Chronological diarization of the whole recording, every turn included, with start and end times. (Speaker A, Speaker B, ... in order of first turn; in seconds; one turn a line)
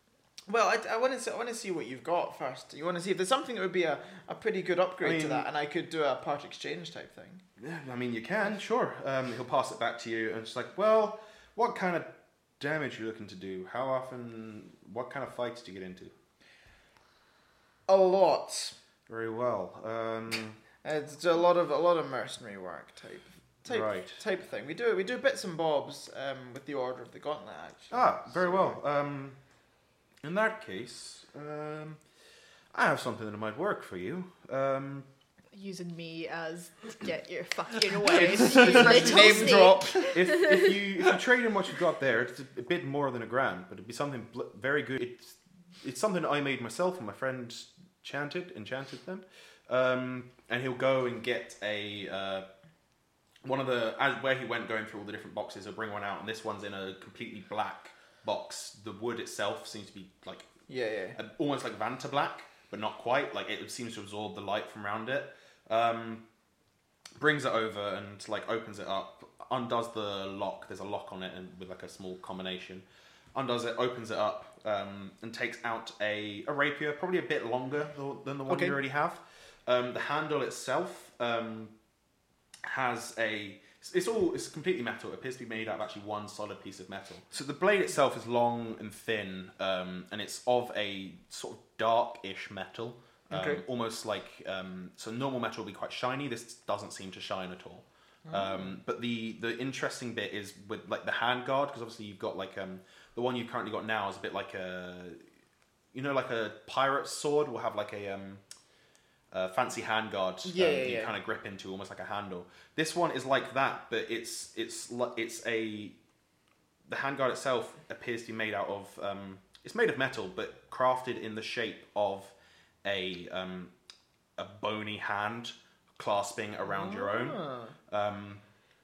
Speaker A: 0.5-7.4
Speaker B: 5.0-5.5
Speaker B: 7.6-16.1
Speaker A: 17.9-18.7
Speaker B: 19.1-20.6
Speaker A: 20.8-28.7
Speaker B: 23.6-24.2
Speaker B: 27.9-29.4
Speaker B: 30.2-32.0
Speaker B: 32.7-35.1
Speaker C: 35.5-40.7
Speaker B: 38.0-52.5
Speaker A: 38.1-40.1
Speaker B: 53.4-60.5
Speaker A: 60.7-61.2
Speaker B: 61.1-66.2
Speaker B: 67.2-81.7
Speaker A: 78.5-78.8
Speaker B: 82.6-105.2
Speaker A: 93.3-93.6
Speaker A: 98.2-98.7
Speaker B: 105.9-108.4
Speaker B: 109.3-116.0
Speaker A: 110.4-111.1
Speaker B: 116.9-123.7
Speaker B: 124.4-128.4
Speaker A: 126.7-127.7